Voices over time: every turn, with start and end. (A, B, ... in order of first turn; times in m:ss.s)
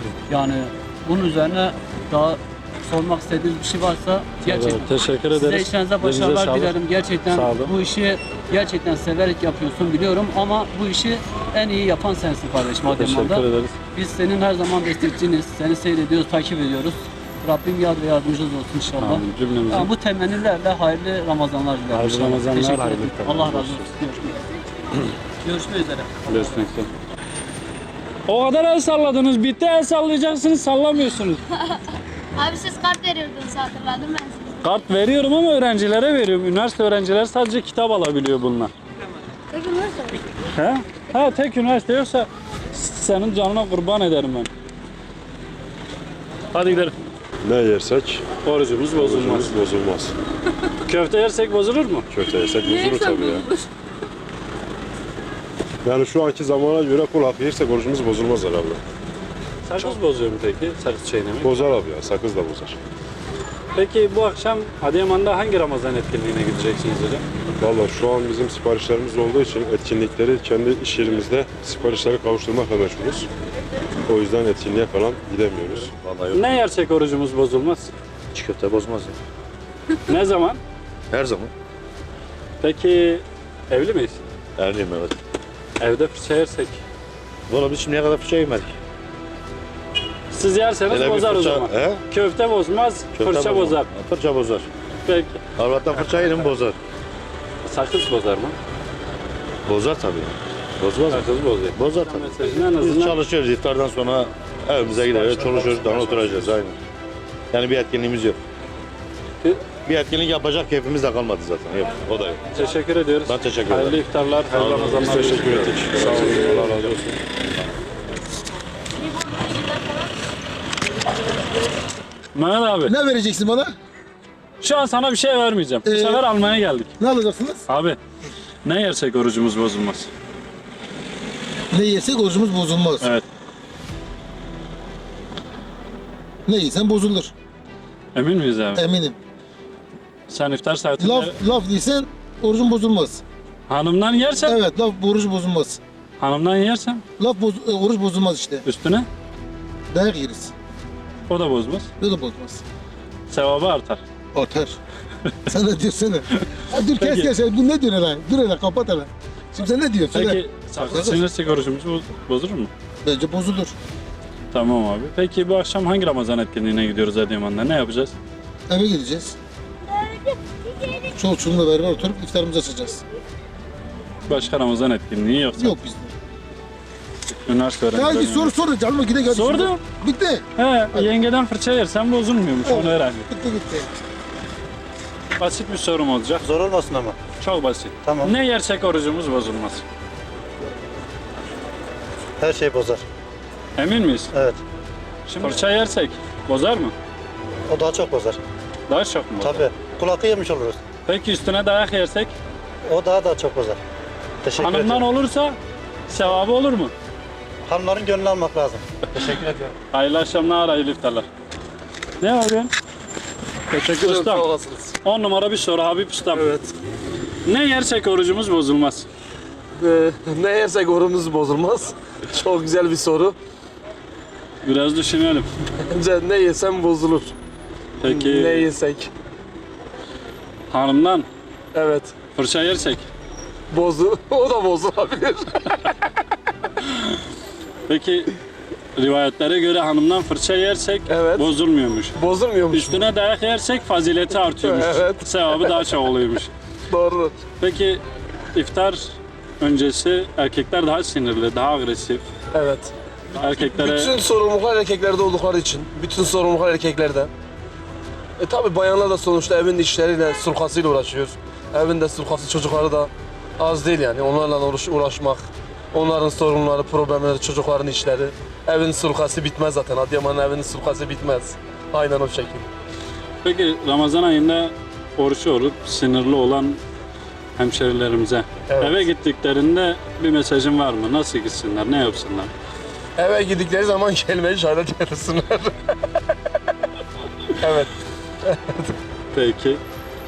0:00.3-0:24.4 A
0:04.4-0:06.8 B
0:07.3-0:07.7 B
0:12.8-0:13.7 B
0:19.0-0:19.9 B
0:21.9-0:23.9 B
0:25.4-0:26.6 A
0:26.3-0:26.9 B
0:28.3-0:31.4 B
0:32.4-0:34.7 C
0:34.6-0:38.7 B
0:39.5-0:40.2 C
0:40.5-0:44.5 B
0:46.5-0:46.9 B
0:47.4-0:48.2 D
0:48.4-0:49.6 B
0:48.9-0:50.1 D
0:50.8-0:52.0 B
0:52.1-0:53.4 D
0:52.6-0:53.5 C
0:55.8-0:58.8 D
0:59.6-1:01.7 B
1:01.4-1:02.8 D
1:03.7-1:07.2 B
1:07.6-1:13.3 D
1:14.1-1:15.9 D
1:15.9-1:16.6 E
1:16.3-1:17.9 B
1:18.3-1:19.2 E
1:20.1-1:20.6 B
1:21.1-1:21.5 E
1:22.6-1:24.2 B
1:24.6-1:25.2 E
1:25.8-1:26.8 B
1:27.5-1:28.8 E
1:30.3-1:33.9 B
1:30.9-1:32.0 E
1:33.1-1:34.7 E
1:35.0-1:35.4 B
1:35.6-1:36.8 E
1:37.6-1:38.6 B
1:39.6-1:46.8 E
1:41.1-1:43.2 B
1:45.4-1:46.2 B
1:47.5-1:48.4 E
1:49.8-1:52.4 E
1:52.5-1:57.1 B
1:53.2-1:56.9 E
1:55.0-1:57.0 D
1:59.1-1:59.9 C
2:02.3-2:02.9 B
2:02.8-2:03.7 F
2:04.6-2:06.9 B
2:05.8-2:06.2 F
2:07.0-2:07.6 F
2:07.7-2:08.0 B
2:08.6-2:10.1 B
2:11.7-2:13.1 F
2:13.0-2:13.2 B
2:16.4-2:17.3 F
2:18.1-2:18.8 B
2:18.7-2:19.2 F
2:20.3-2:21.4 B
2:21.0-2:23.2 F
2:23.7-2:24.6 B
2:24.4-2:25.8 F
2:26.2-2:27.0 B
2:27.2-2:28.6 F
2:28.6-2:29.1 B
2:29.9-2:30.5 F
2:31.3-2:31.9 B
2:32.0-2:32.6 F
2:33.3-2:34.0 B
2:34.3-2:34.8 F
2:35.5-2:41.2 F
2:37.0-2:37.3 B
2:40.1-2:42.7 B
2:43.0-2:43.7 F
2:44.5-2:48.1 B
2:48.7-2:49.4 F
2:51.0-2:53.0 F
2:54.3-2:55.8 B
2:55.6-2:56.1 F
2:57.3-2:58.5 B
2:57.9-3:00.4 F
2:59.3-2:59.8 B
3:00.6-3:03.3 B
3:02.6-3:03.9 F
3:05.4-3:06.4 B
3:06.4-3:07.2 G
3:07.4-3:09.8 B
3:08.0-3:08.3 G
3:12.4-3:13.0 G
3:13.8-3:14.3 B
3:14.3-3:14.6 G
3:15.3-3:16.9 B
3:17.7-3:18.4 G
3:18.9-3:19.6 B
3:19.4-3:20.8 G
3:21.0-3:22.3 B
3:22.9-3:23.8 G
3:24.4-3:25.0 G
3:24.6-3:25.6 B
3:26.1-3:26.9 B
3:27.6-3:29.7 G
3:29.9-3:31.2 B
3:32.2-3:32.7 B
3:33.7-3:34.5 B
3:33.8-3:34.9 H
3:35.0-3:36.4 B
3:36.3-3:36.7 H
3:37.4-3:39.1 B
3:39.8-3:43.4 H
3:44.6-3:45.5 B
3:45.8-3:47.3 H
3:48.0-3:48.7 B
3:48.0-3:49.1 H
3:50.7-3:51.3 B
3:51.7-3:52.2 H
3:52.3-3:53.1 B
3:53.7-3:55.7 H
3:57.9-3:58.3 B
3:59.0-4:02.1 B
4:01.1-4:01.5 H
4:02.1-4:03.1 H
4:02.7-4:06.5 B
4:04.6-4:05.8 H
4:06.9-4:07.4 H
4:07.6-4:08.0 B
4:08.5-4:12.2 B
4:12.5-4:17.3 H
4:13.3-4:14.1 B
4:18.4-4:32.7 H
4:33.4-4:36.8 B
4:37.6-4:42.5 B
4:38.7-4:39.1 H
4:43.2-4:46.0 H
4:47.6-4:48.9 H
4:49.3-4:49.8 B